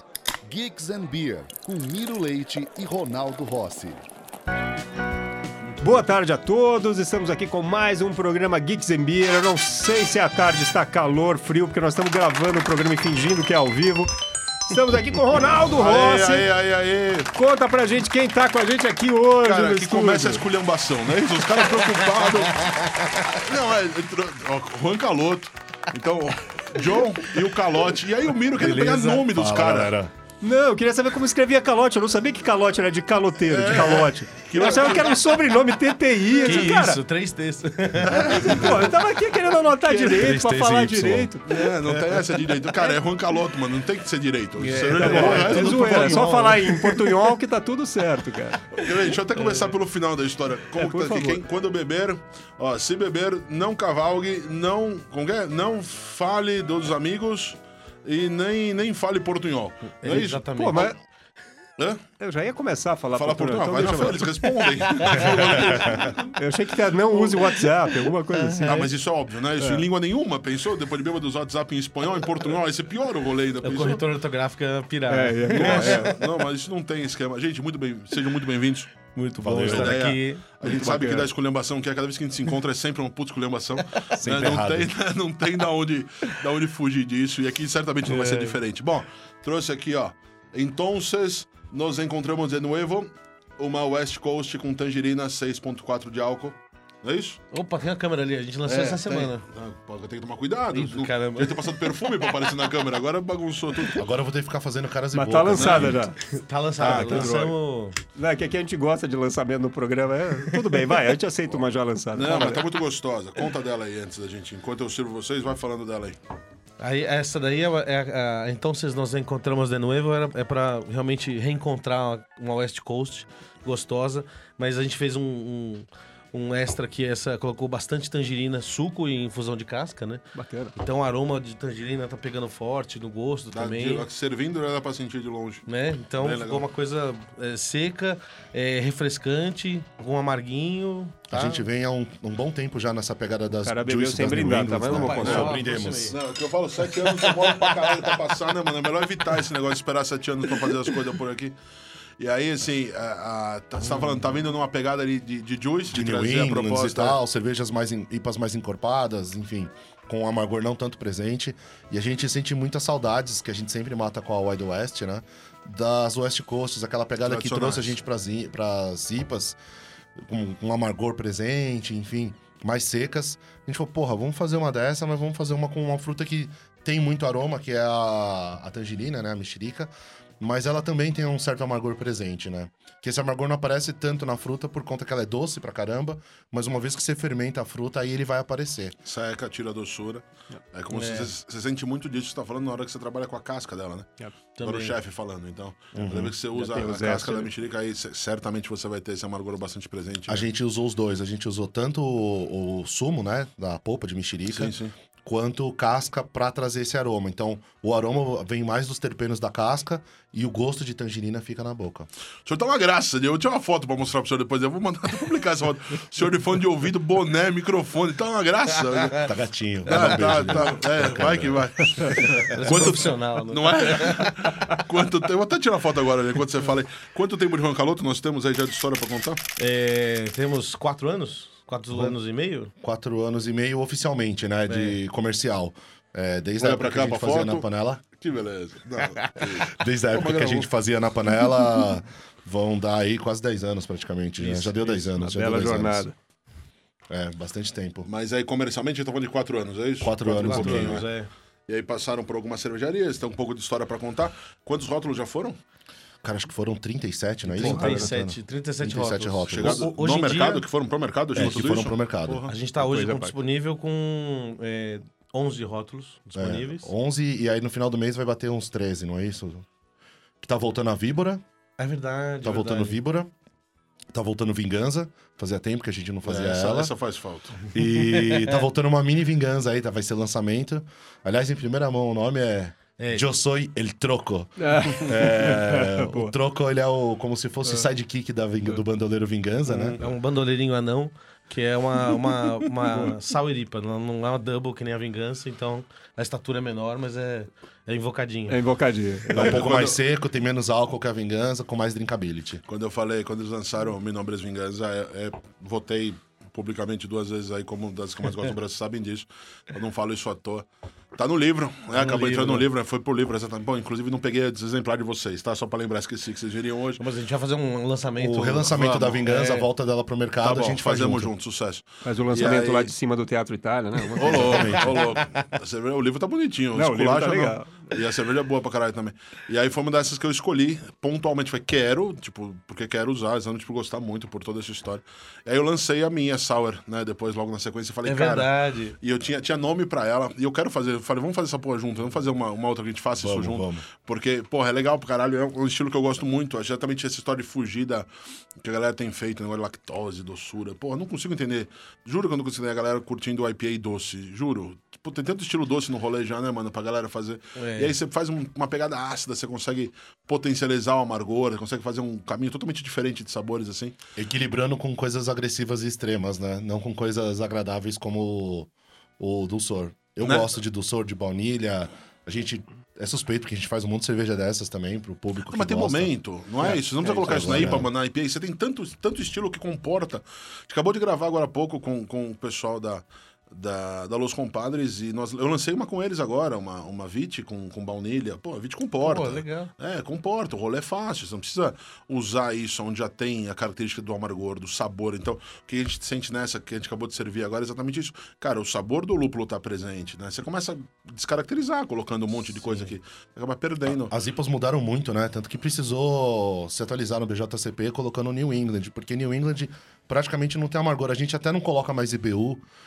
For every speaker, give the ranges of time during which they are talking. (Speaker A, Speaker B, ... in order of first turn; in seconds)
Speaker A: 0.4-4.0
Speaker B: 5.8-14.1, 14.6-16.5, 17.3-20.4, 30.4-37.0, 38.2-41.7, 44.6-49.7, 50.7-51.4, 60.6-60.9, 62.2-68.9, 69.6-69.8, 75.1-76.2, 88.1-88.5, 105.1-106.2, 106.8-107.3, 108.1-112.6, 130.3-130.7, 143.6-145.5, 196.5-197.5, 244.4-246.1, 257.6-258.1, 262.8-263.3, 284.6-286.3, 298.5-299.6, 322.0-325.0, 326.7-327.9
Speaker C: 15.7-17.3, 19.4-29.9, 33.4-35.2, 38.0-38.7, 41.5-46.9, 48.7-60.9, 61.8-62.0, 63.1-66.3, 68.6-74.0, 75.5-78.9, 79.6-97.4, 98.7-104.0, 105.5-106.0, 106.8-107.5, 111.5-116.2, 133.5-135.6, 136.2-136.7, 145.2-145.5, 146.1-151.6, 152.2-157.2, 167.2-167.9, 189.0-194.1, 194.6-200.4, 204.5-204.9, 212.4-219.3, 219.8-229.4, 236.6-240.7, 248.0-251.1, 251.7-255.6, 259.5-262.5, 276.2-277.6, 299.3-300.0, 302.7-317.0, 318.7-319.2, 320.4-322.9, 324.1-363.9, 370.2-370.5, 375.5-404.1
Speaker D: 22.6-23.4, 28.6-29.3, 36.4-38.7, 40.0-41.3, 44.6-46.4, 60.0-60.9, 68.3-68.8, 73.6-76.2, 79.1-81.2, 97.5-99.4, 100.7-101.6, 106.3-108.0, 116.8-130.2, 130.7-134.1, 135.7-141.7, 144.9-146.2, 147.0-148.1, 190.9-191.3, 194.6-194.9, 219.9-220.5, 222.1-224.3, 229.6-232.7, 234.7-235.0, 239.1-239.3, 250.4-251.3, 257.5-260.7, 262.4-266.9, 271.8-273.0, 278.1-278.5, 283.0-283.3, 289.7-298.6, 311.9-312.7, 317.0-319.7, 338.0-339.0, 357.6-357.9, 377.0-377.4, 389.0-389.7
Speaker E: 29.3-30.1, 65.7-66.0, 79.4-80.0, 84.2-84.9, 104.0-106.0, 141.3-146.1, 155.9-169.6, 170.2-188.9, 195.9-196.3, 200.3-212.1, 219.2-221.6, 232.8-238.0, 239.7-246.1, 247.1-248.1, 250.0-251.0, 256.2-259.9, 261.3-262.4, 266.3-269.6, 270.4-271.4, 272.4-273.3, 274.1-276.9, 277.7-290.0, 299.3-302.6, 318.2-321.3, 324.2-324.9, 343.2-343.8, 364.1-377.9, 404.0-412.6